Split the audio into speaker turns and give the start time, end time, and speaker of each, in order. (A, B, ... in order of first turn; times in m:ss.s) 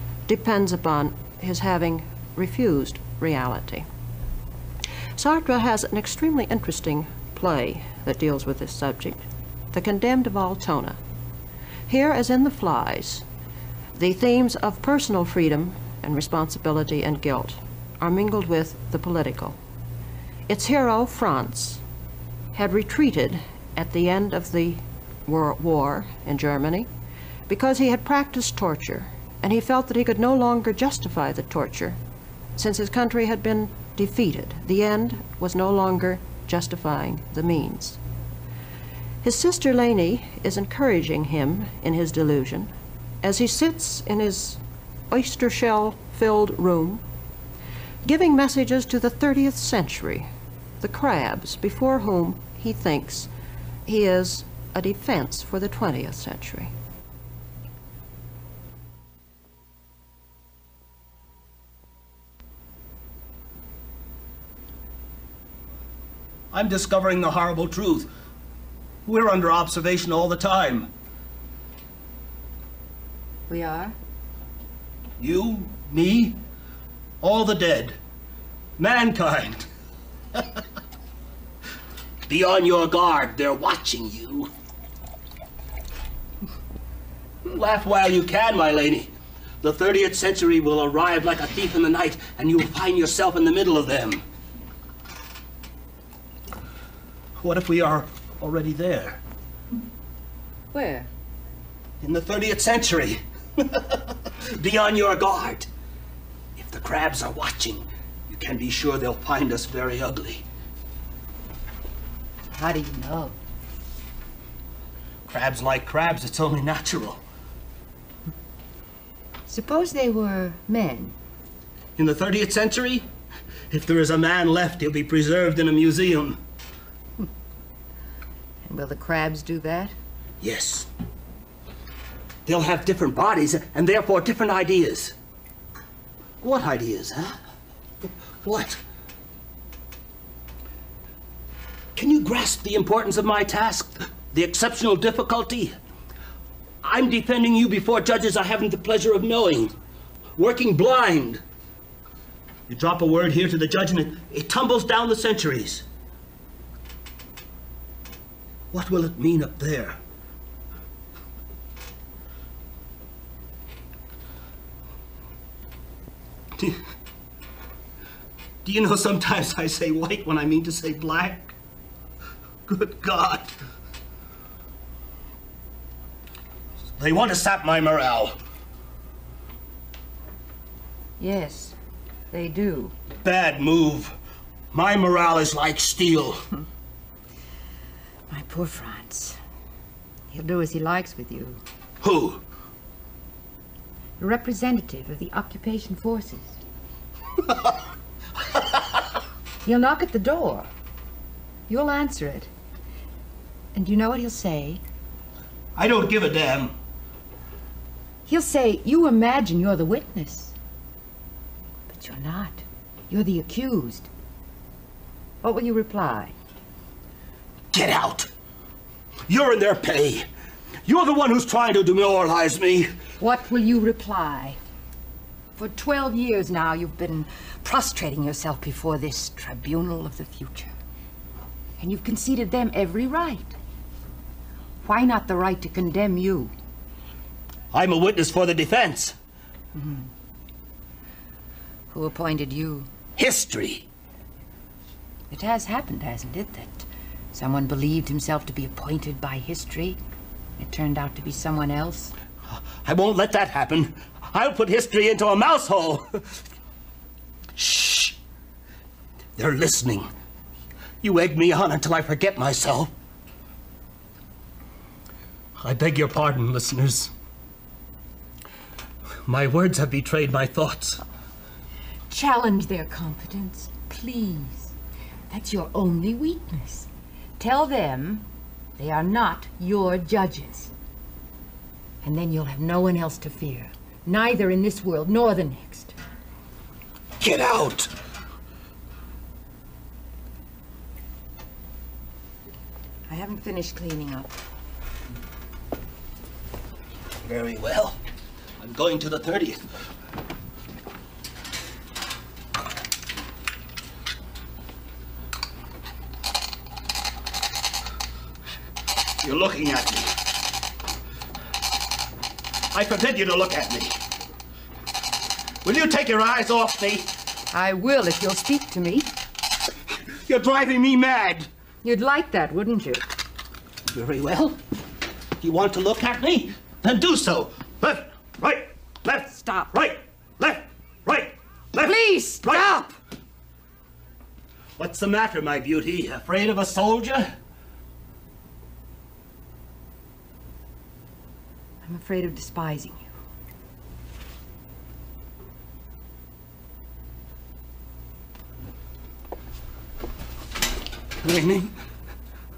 0:00.3-0:03.9 A
0:05.2-0:11.0 A
0:11.9-0:13.2 A
0:14.0-0:19.6 A
0:20.5-0:21.8 A
0:22.5-0:26.9 A
0:27.5-0:32.0 A
0:32.6-0:38.0 A
0:39.2-0:42.7 A
0:43.2-0:44.6 A
0:45.1-0:47.0 A
0:48.0-0:50.3 A
0:50.8-0:53.3 A
0:53.9-0:56.7 A
1:06.5-1:08.1 B
1:09.1-1:10.9 B
1:13.5-1:14.0 C
1:15.2-1:16.4 B
1:17.2-1:18.0 B
1:18.8-1:19.7 B
1:20.4-1:20.6 B
1:22.3-1:24.5 B
1:27.4-1:34.2 B
1:37.4-1:39.2 B
1:40.7-1:41.1 C
1:42.0-1:45.7 B
1:46.6-1:50.4 B
1:52.5-1:53.4 C
1:55.3-1:57.2 B
1:59.5-2:01.2 C
2:02.0-2:03.1 B
2:03.7-2:06.4 B
2:08.6-2:10.0 C
2:10.4-2:10.9 B
2:12.5-2:15.2 B
2:16.4-2:17.4 B
2:18.4-2:18.8 B
2:22.0-2:25.8 B
2:26.8-2:29.8 B
2:30.4-2:31.4 B
2:32.7-2:35.8 B
2:38.7-2:40.0 B
2:46.6-2:46.8 B
2:48.6-2:51.5 B
2:52.7-2:53.5 B
2:57.0-2:58.4 B
3:01.2-3:01.8 C
3:02.3-3:02.9 C
3:03.2-3:04.1 B
3:04.7-3:06.4 B
3:08.3-3:09.4 C
3:10.3-3:11.6 C
3:12.0-3:12.4 B
3:14.2-3:16.6 C
3:19.6-3:20.7 C
3:21.7-3:22.5 C
3:23.8-3:24.8 C
3:25.8-3:26.8 B
3:28.3-3:30.6 C
3:31.9-3:34.1 C
3:35.4-3:36.4 C
3:37.7-3:38.3 B
3:39.3-3:40.3 B
3:40.9-3:42.9 B
3:43.2-3:44.6 C
3:45.6-3:50.7 C
3:51.8-3:53.6 C
3:54.8-3:56.5 C
3:57.7-3:59.2 B
3:59.8-4:00.1 C
4:01.9-4:02.9 C
4:03.2-4:03.9 B
4:05.3-4:10.0 C
4:10.6-4:12.1 C
4:12.8-4:16.2 B
4:17.6-4:18.2 B
4:19.4-4:20.1 B
4:21.0-4:22.9 B
4:25.6-4:27.1 B
4:29.3-4:31.0 B
4:32.1-4:34.7 C
4:35.3-4:40.7 C
4:42.0-4:46.0 C
4:47.2-4:47.9 B
4:53.1-4:54.4 C
4:57.2-4:58.0 B
4:58.6-4:59.6 B
5:09.2-5:10.2 B
5:12.7-5:14.0 B
5:15.6-5:17.1 B
5:17.5-5:19.1 C
5:20.2-5:21.5 B
5:21.8-5:23.1 C
5:23.9-5:24.6 B
5:25.4-5:32.8 B
5:29.3-5:29.7 C
5:31.8-5:33.0 C
5:34.8-5:37.3 B
5:41.8-5:43.1 C
5:51.2-5:51.7 B